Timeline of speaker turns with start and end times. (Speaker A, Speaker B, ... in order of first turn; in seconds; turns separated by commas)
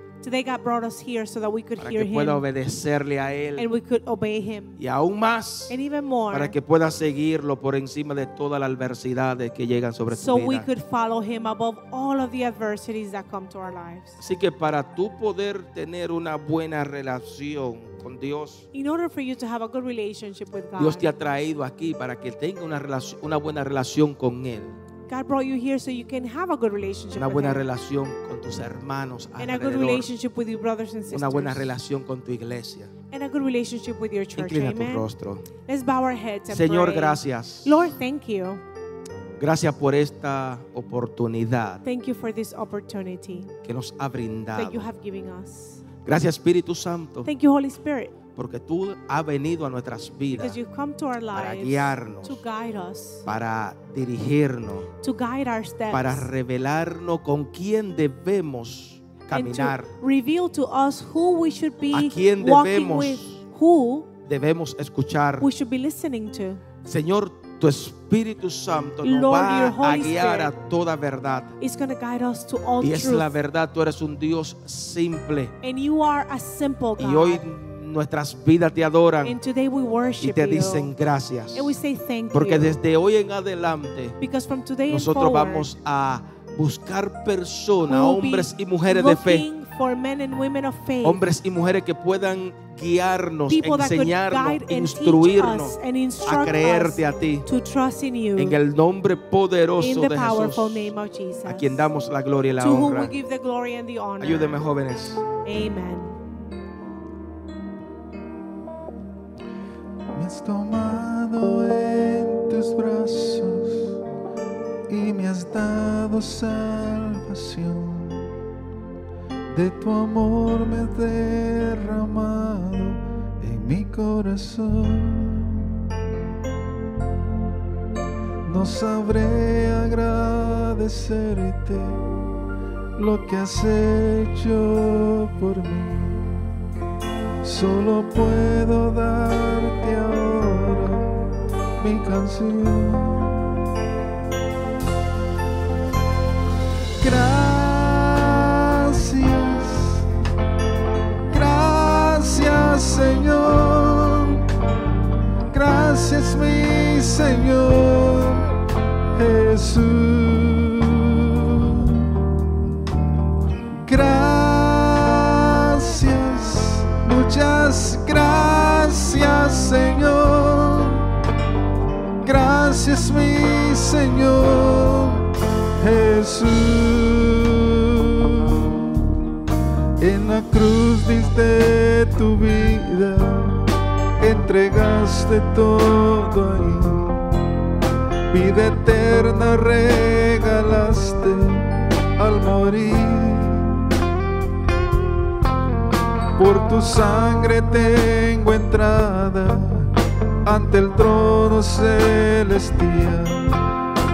Speaker A: 0.2-2.4, Speaker B: 1.8-3.7, Speaker A: 3.5-4.8, Speaker B: 4.8-5.8, Speaker A: 5.7-6.5, Speaker B: 6.3-10.7, Speaker A: 10.1-14.2, Speaker B: 14.2-18.6, Speaker A: 18.7-21.1, Speaker B: 20.8-24.8, Speaker A: 25.1-27.6, Speaker B: 27.1-30.1, Speaker A: 29.4-31.7, Speaker B: 31.1-32.9, Speaker A: 33.1-35.1, Speaker B: 34.4-35.5, Speaker A: 35.6-38.6, Speaker B: 36.5-37.9, Speaker B: 39.4-41.8, Speaker A: 41.8-43.5, Speaker B: 43.6-44.9, Speaker A: 44.5-45.8, Speaker B: 46.0-47.3, Speaker A: 47.2-48.1, Speaker B: 48.3-50.6, Speaker A: 50.3-53.2, Speaker B: 51.3-52.4, Speaker B: 53.2-54.9, Speaker A: 55.0-56.3, Speaker B: 55.9-59.9, Speaker A: 59.3-64.1, Speaker B: 61.9-63.4, Speaker B: 64.2-65.5, Speaker A: 65.4-66.6, Speaker B: 66.8-71.5, Speaker A: 69.0-70.5, Speaker A: 71.6-73.3, Speaker B: 72.8-75.5, Speaker A: 75.6-77.4, Speaker B: 77.0-79.4, Speaker A: 79.2-80.9, Speaker B: 80.2-81.7, Speaker A: 81.5-82.8, Speaker B: 82.3-84.2, Speaker A: 84.2-85.7, Speaker B: 84.9-89.4, Speaker A: 87.9-91.2, Speaker B: 91.0-97.5, Speaker A: 93.5-98.6, Speaker B: 98.4-100.9, Speaker A: 99.8-101.9, Speaker B: 101.5-103.1, Speaker A: 102.6-104.6, Speaker B: 104.2-105.2, Speaker A: 105.4-106.2, Speaker C: 110.1-114.0, Speaker C: 114.9-118.3, Speaker C: 119.5-125.6, Speaker C: 128.4-132.0, Speaker C: 133.0-136.4, Speaker C: 137.4-141.2, Speaker C: 141.8-143.4, Speaker C: 147.0-150.0, Speaker C: 151.3-154.4, Speaker C: 155.5-158.4, Speaker C: 159.1-162.2, Speaker C: 163.8-171.1, Speaker C: 172.2-175.2, Speaker C: 175.8-179.1, Speaker C: 180.0-187.3, Speaker C: 188.3-193.9, Speaker C: 196.4-199.9, Speaker C: 200.4-203.6